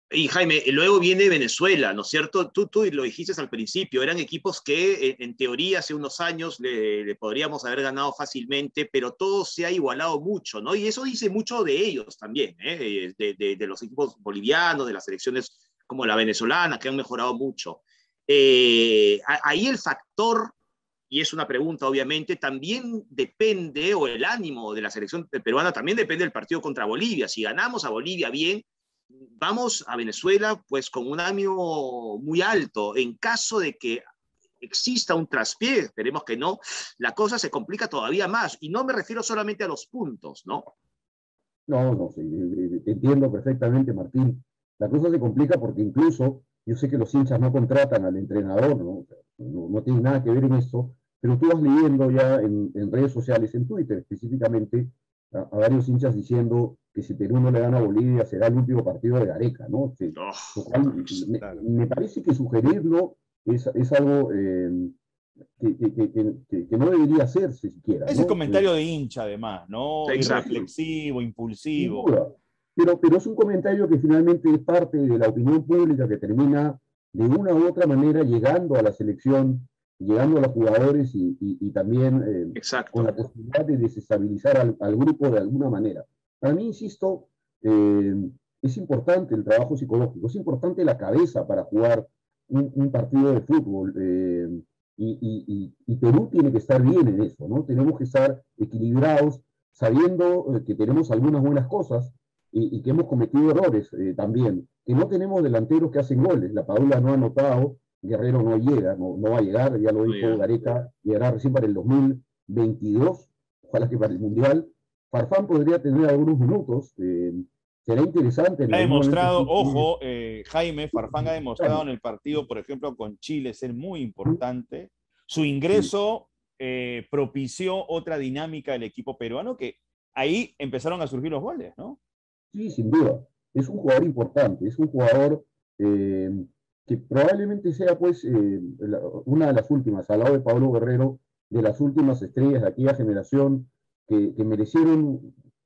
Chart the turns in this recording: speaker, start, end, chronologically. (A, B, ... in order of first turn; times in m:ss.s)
0:00.1-0:20.5 A
0:21.1-0:28.6 A
0:29.3-0:34.0 A
0:34.6-0:40.7 A
0:41.7-1:05.0 B
1:00.1-1:01.2 A
1:01.4-1:01.6 C
1:05.6-1:08.6 B
1:08.1-1:12.1 C
1:10.1-1:10.5 A
1:10.2-1:10.7 B
1:11.8-1:59.9 B
1:22.6-1:23.1 A
1:50.0-1:50.4 A
1:58.7-2:12.0 C
2:00.9-2:01.8 B
2:12.5-2:25.3 B